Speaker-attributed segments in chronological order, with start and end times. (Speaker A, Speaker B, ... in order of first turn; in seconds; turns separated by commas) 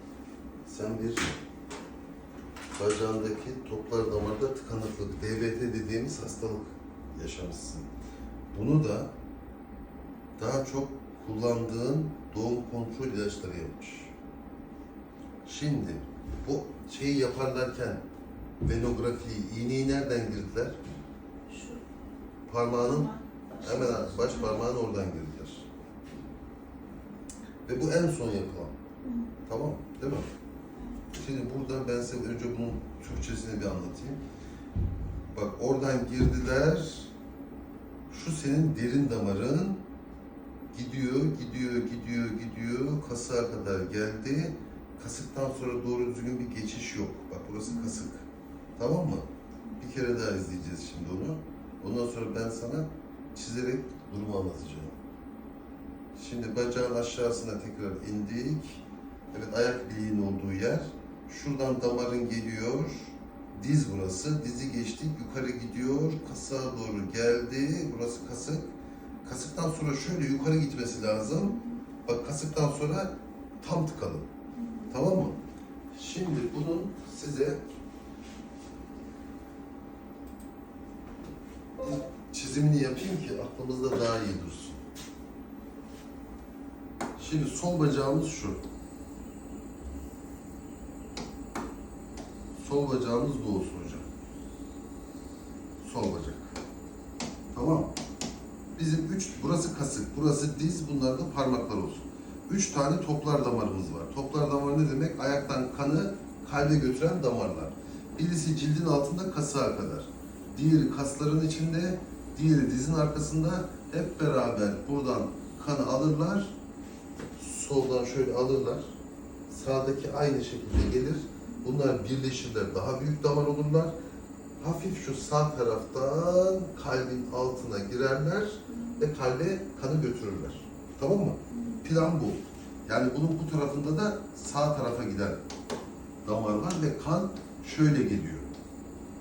Speaker A: 0.7-1.3, Speaker A: 2.8-7.9, Speaker A: 8.5-9.1, Speaker A: 10.4-14.1, Speaker A: 15.4-18.0, Speaker A: 18.6-20.8, Speaker B: 21.5-21.8, Speaker A: 22.5-23.1, Speaker B: 22.6-24.7, Speaker A: 23.6-25.7, Speaker A: 27.7-28.7, Speaker B: 29.0-29.3, Speaker A: 29.4-30.2, Speaker A: 31.1-34.2, Speaker A: 35.3-37.1, Speaker A: 38.1-39.8, Speaker A: 40.7-48.2, Speaker B: 47.7-48.0, Speaker A: 48.8-49.2, Speaker A: 49.8-55.0, Speaker A: 56.1-68.7, Speaker A: 69.2-74.2, Speaker B: 71.4-71.8, Speaker B: 74.5-74.9, Speaker A: 74.9-75.3, Speaker A: 75.9-77.6, Speaker A: 81.8-84.8, Speaker A: 87.2-88.6, Speaker A: 92.6-94.0, Speaker A: 95.8-96.5, Speaker A: 97.5-97.9, Speaker A: 98.8-116.5, Speaker A: 117.4-118.9, Speaker A: 119.5-123.9, Speaker A: 124.6-135.4, Speaker B: 128.7-129.0, Speaker B: 131.5-131.8, Speaker A: 136.2-138.5